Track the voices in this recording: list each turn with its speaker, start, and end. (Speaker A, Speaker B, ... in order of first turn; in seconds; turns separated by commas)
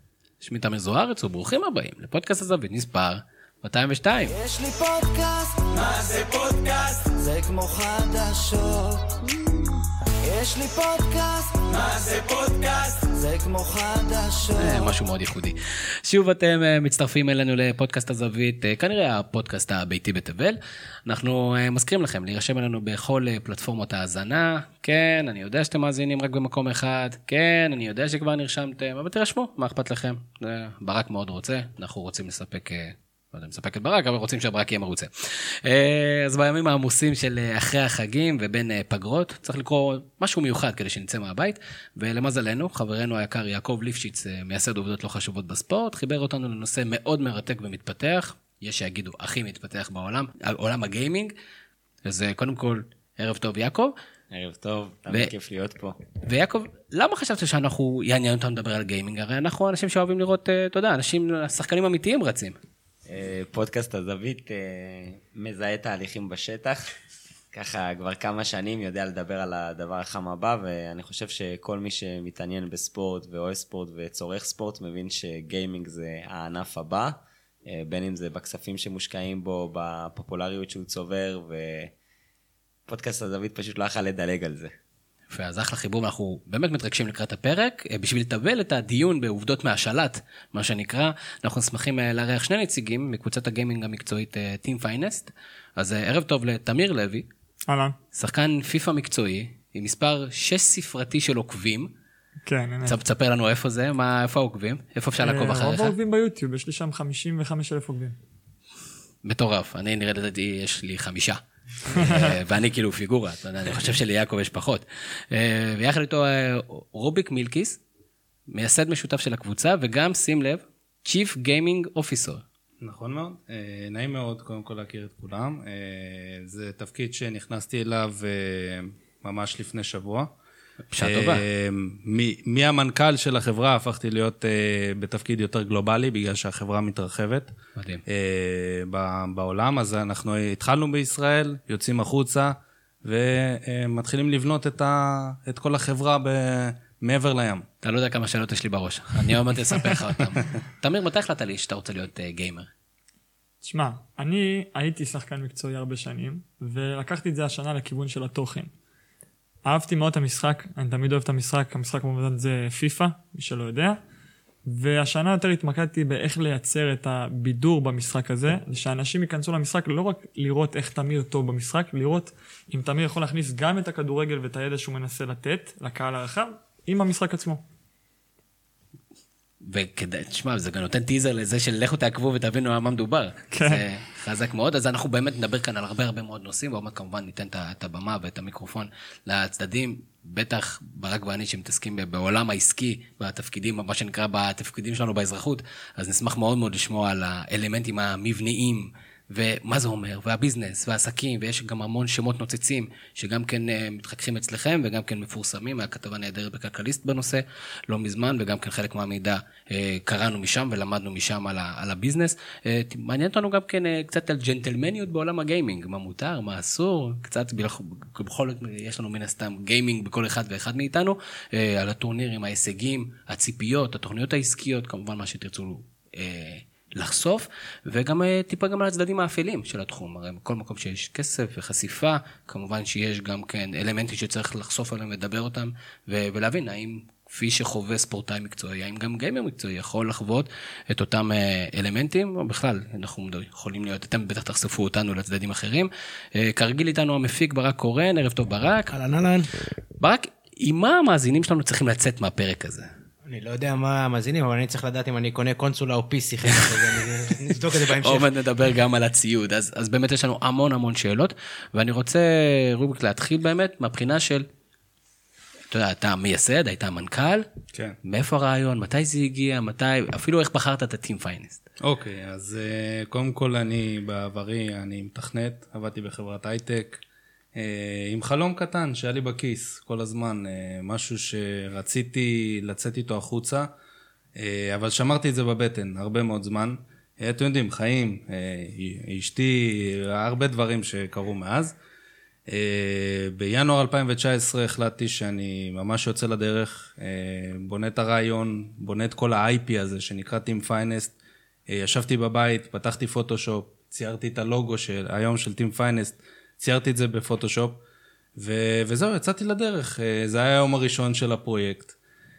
Speaker A: 0.4-4.3, Speaker B: 4.3-14.9, Speaker A: 14.6-51.3, Speaker A: 52.0-53.9, Speaker C: 54.3-56.0, Speaker A: 56.3-62.6, Speaker C: 63.1-66.8, Speaker C: 67.5-81.9, Speaker C: 82.9-84.7, Speaker A: 85.3-97.3, Speaker D: 97.7-98.0, Speaker A: 98.1-101.9, Speaker D: 102.4-103.0, Speaker A: 102.9-106.0, Speaker D: 105.2-108.2, Speaker A: 109.2-117.8, Speaker A: 118.5-122.4, Speaker E: 122.8-130.3, Speaker A: 130.9-131.4, Speaker E: 131.0-137.5, Speaker A: 137.8-138.0, Speaker E: 138.1-147.7, Speaker A: 147.8-152.7, Speaker D: 153.6-158.7, Speaker D: 159.7-164.0, Speaker D: 164.7-177.6, Speaker A: 179.6-248.9, Speaker D: 183.5-183.9, Speaker F: 248.9-249.5, Speaker A: 250.0-252.9, Speaker F: 253.3-258.3, Speaker A: 256.5-264.5, Speaker A: 265.7-267.4, Speaker A: 268.1-271.6, Speaker E: 271.8-277.0, Speaker E: 277.6-283.7, Speaker E: 284.4-291.8, Speaker E: 292.5-301.2, Speaker E: 301.7-307.8, Speaker E: 308.4-312.0